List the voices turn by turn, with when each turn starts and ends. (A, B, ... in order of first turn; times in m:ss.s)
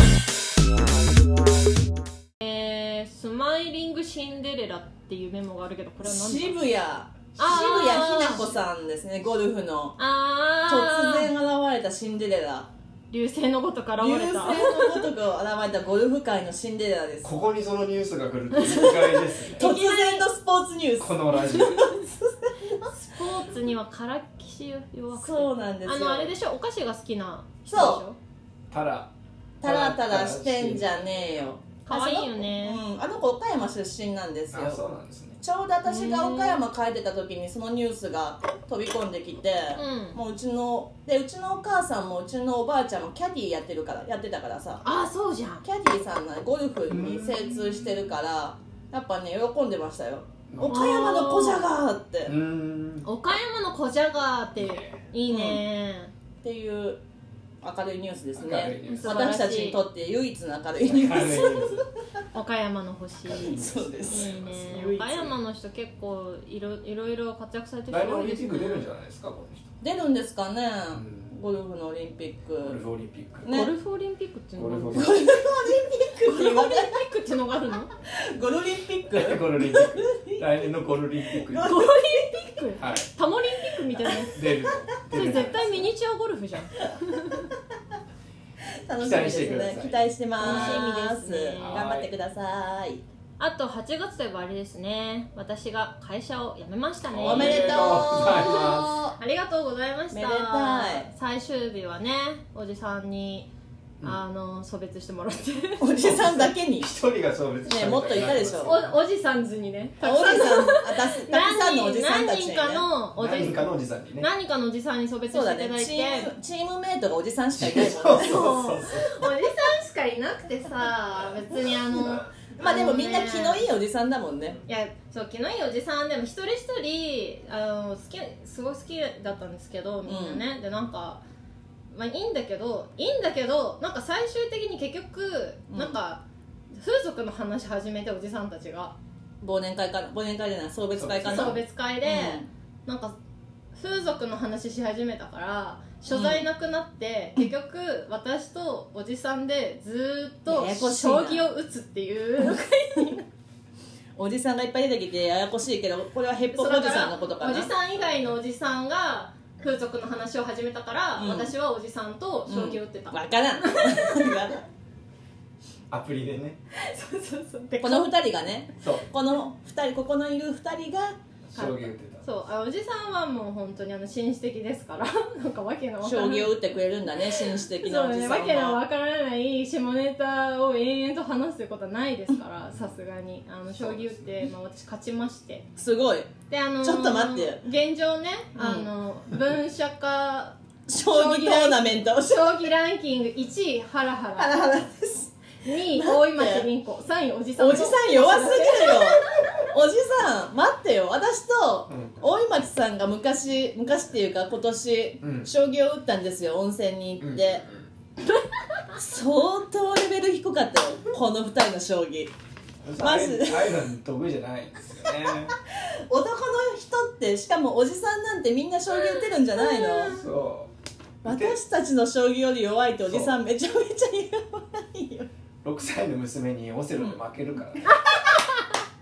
0:02.4-0:06.6 A
0:06.0-0:10.0 B
0:07.4-0:08.5 A
0:10.0-0:11.3 A
0:10.7-0:12.7 B
0:13.1-0:15.1 A
0:14.0-0:17.3 B
0:17.2-0:19.7 C
0:18.5-0:20.3 A
0:19.6-0:21.2 B
0:21.0-0:22.0 C
0:21.7-0:22.8 B
0:22.9-0:28.2 A
0:25.1-0:26.3 B
0:27.7-0:28.0 B
0:28.7-0:31.0 C
0:29.6-0:34.8 B
0:31.8-0:32.8 A
0:34.5-0:35.4 C
0:35.4-0:44.8 B
0:35.8-0:36.6 A
0:39.8-0:40.2 A
0:44.8-0:45.6 A
0:45.6-0:52.3 B
0:46.9-0:48.1 C
0:50.5-0:50.8 C
0:50.7-0:51.7 A
0:52.3-0:53.1 C
0:53.0-0:56.1 A
0:54.6-0:55.0 C
0:55.3-0:55.6 B
0:56.4-0:57.0 B
0:57.6-1:01.9 B
0:58.4-0:59.2 C
0:58.9-0:59.8 A
1:00.8-1:01.8 C
1:02.3-1:08.9 A
1:03.3-1:05.2 C
1:03.6-1:04.8 B
1:07.9-1:09.7 C
1:09.8-1:12.8 B
1:10.9-1:11.3 C
1:12.6-1:13.5 C
1:13.4-1:15.3 A
1:14.6-1:15.2 C
1:14.9-1:17.0 B
1:16.2-1:17.9 A
1:18.1-1:20.4 B
1:19.1-1:21.8 C
1:21.4-1:22.3 B
1:21.6-1:24.5 A
1:22.8-1:23.1 C
1:24.3-1:25.9 C
1:25.1-1:27.5 A
1:28.9-1:33.0 B
1:29.0-1:30.9 C
1:30.4-1:31.9 A
1:31.6-1:32.1 C
1:33.4-1:43.5 A
1:37.1-1:39.0 C
1:37.2-1:39.2 B
1:40.1-1:41.1 B
1:44.0-1:46.0 A
1:45.8-1:46.9 B
1:46.0-1:49.0 C
1:47.7-1:48.8 B
1:48.6-1:56.3 A
1:50.0-1:52.9 B
1:53.2-1:54.3 C
1:55.3-1:58.5 B
1:57.6-1:59.3 C
1:58.1-2:03.7 A
2:02.6-2:04.6 B
2:04.7-2:11.2 A
2:10.0-2:10.5 B
2:11.9-2:16.2 A
2:15.7-2:16.0 B
2:16.8-2:19.0 A
2:19.4-2:22.5 B
2:20.9-2:21.6 C
2:21.3-2:23.2 A
2:23.7-2:33.3 A
2:26.1-2:26.4 B
2:30.5-2:31.5 B
2:34.2-2:37.7 B
2:36.5-2:44.3 A
2:41.2-2:41.6 B
2:42.5-2:44.6 B
2:45.9-2:46.6 C
2:46.7-2:48.1 A
2:47.8-2:51.2 B
2:48.8-2:49.0 C
2:51.5-2:52.3 C
2:51.6-3:05.7 A
2:56.0-2:58.8 B
3:03.7-3:04.4 C
3:05.8-3:07.6 B
3:06.5-3:14.6 A
3:08.6-3:08.9 B
3:10.9-3:12.4 B
3:14.4-3:15.3 B
3:15.6-3:19.5 A
3:15.9-3:16.7 B
3:17.6-3:27.6 B
3:21.9-3:22.2 C
3:25.2-3:25.5 C
3:27.2-3:27.9 C
3:29.0-3:32.3 B
3:32.8-3:35.6 C
3:33.0-3:33.8 B
3:36.1-3:40.2 B
3:39.6-3:40.2 A
3:40.1-3:40.7 C
3:41.2-3:41.6 C
3:41.2-3:45.3 B
3:43.0-3:43.3 C
3:45.6-3:47.9 C
3:47.9-3:48.6 A